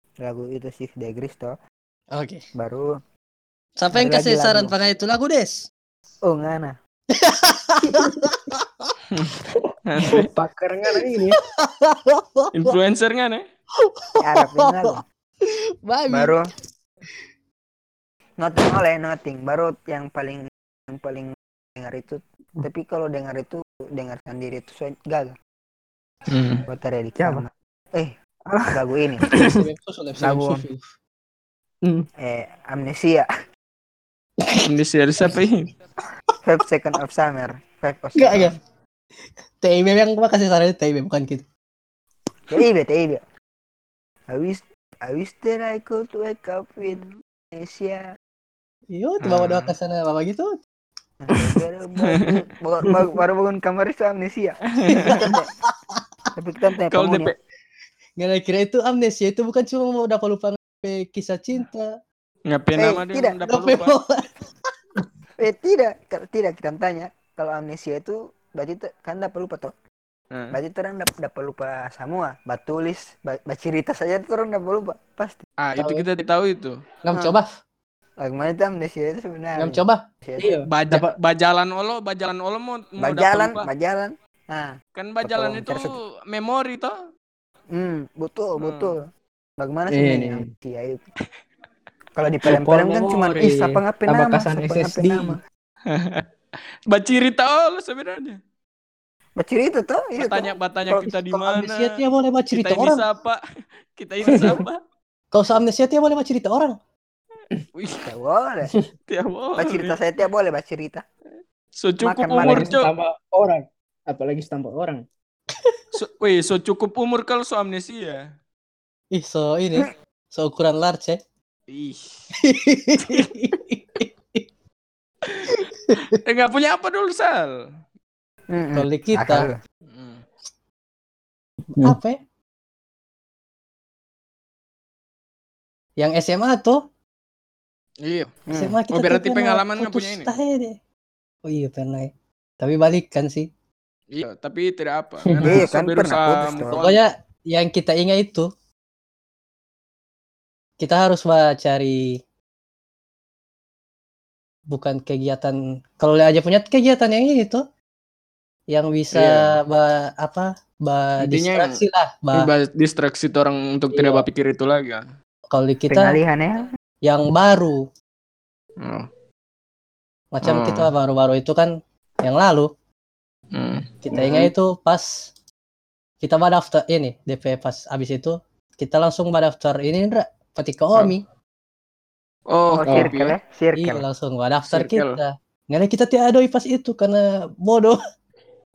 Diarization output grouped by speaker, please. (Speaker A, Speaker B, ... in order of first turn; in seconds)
Speaker A: 0.2-1.6, 2.5-3.0, 3.9-4.7, 6.2-6.8, 14.2-15.0, 16.1-16.4, 18.4-25.4, 26.7-28.1, 28.7-29.3, 30.2-30.6, 32.2-33.3, 36.4-38.5, 42.5-43.2, 44.3-48.1, 51.2-55.5, 56.3-57.3, 62.8-63.4, 65.4-69.7, 70.5-75.4, 77.1-77.4, 78.2-80.5, 83.0-85.9, 87.7-89.0, 89.6-91.0, 92.2-95.4, 99.4-101.4, 108.0-108.7, 109.6-111.0, 112.0-112.7, 128.5-129.6, 138.5-138.8, 145.4-146.8, 165.9-166.7, 182.7-184.0
Speaker B: 2.1-2.4, 3.8-5.7, 7.1-8.9, 11.5-12.8, 13.8-16.3, 29.4-30.9, 38.1-38.6, 39.6-41.4, 48.9-50.6, 54.9-56.0, 58.2-61.9, 63.5-64.2, 77.0-77.5, 79.5-80.0, 101.5-103.0, 105.3-106.8, 119.1-121.2, 122.4-124.4, 125.5-126.1, 128.7-129.5, 131.8-132.2, 136.0-136.8, 138.5-140.8, 141.4-143.5, 146.8-148.5, 150.8-152.2, 154.7-157.6, 158.7-162.5, 163.9-164.2, 165.5-166.2, 167.0-167.9, 170.3-172.7, 174.0-175.3, 176.2-181.2, 183.7-188.0
Speaker C: 9.1-10.3, 12.5-13.4, 26.3-26.6, 34.6-35.7, 49.2-49.7, 52.0-52.3, 54.7-55.3, 56.9-57.3, 62.5-63.9, 70.3-70.6, 75.6-76.8, 80.7-83.7, 85.0-86.9, 88.6-88.9, 95.9-96.2, 96.9-98.4, 100.2-102.0, 102.5-103.4, 104.0-104.8, 107.7-108.1, 109.1-110.0, 111.8-112.9, 115.9-118.3, 121.7-122.3, 123.0-123.3, 125.2-127.6, 129.9-130.2, 138.0-138.4, 138.9-140.4, 144.1-147.0, 159.1-159.6, 161.2-161.8, 162.3-165.0, 168.8-169.1, 170.4-170.9, 173.5-174.5, 182.5-183.3, 184.7-185.2
Speaker D: 10.0-11.4, 27.2-27.4, 28.5-29.6, 80.4-81.1, 89.9-90.5, 92.5-95.4, 104.3-104.6, 112.4-115.0, 131.7-132.0, 182.8-183.1